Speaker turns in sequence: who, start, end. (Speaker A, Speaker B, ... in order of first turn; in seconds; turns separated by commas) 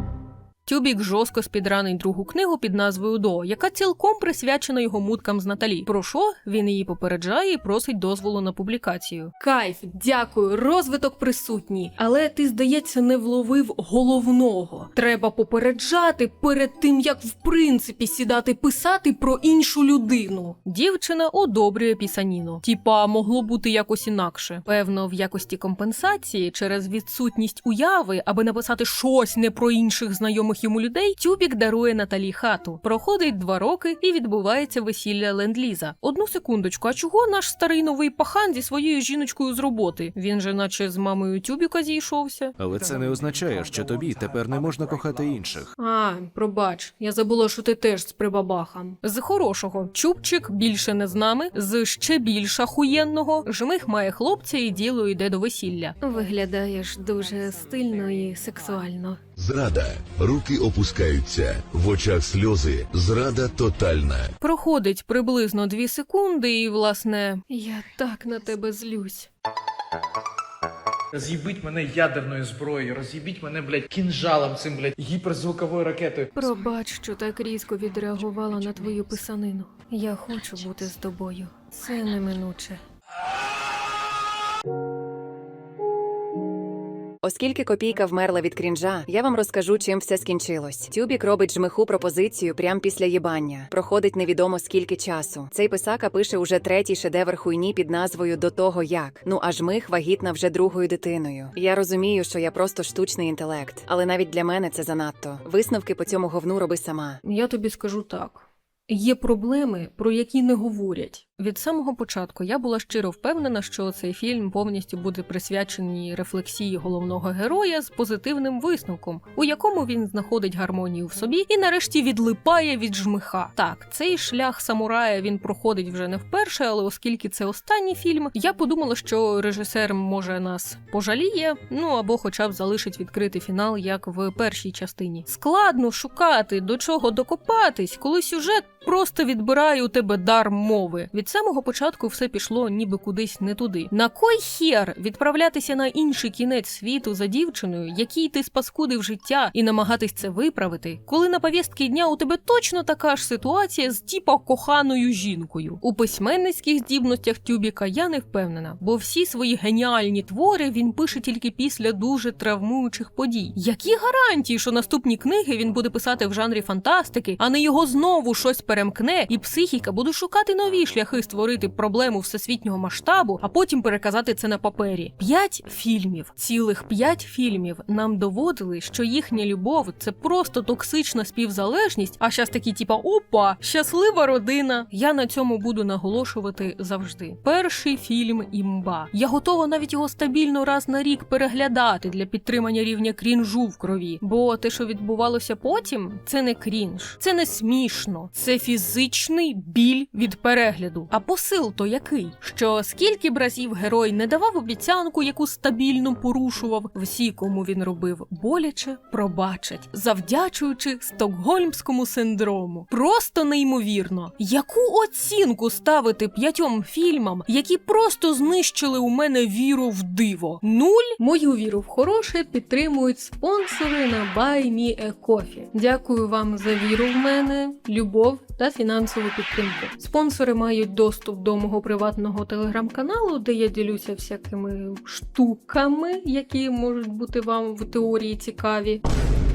Speaker A: 0.7-42.5, Speaker B: 42.6-45.7, Speaker A: 45.8-59.2, Speaker C: 59.4-64.3, Speaker A: 64.4-69.3, Speaker D: 71.2-76.2, Speaker A: 76.3-82.8, Speaker E: 87.2-107.2, Speaker A: 107.2-239.0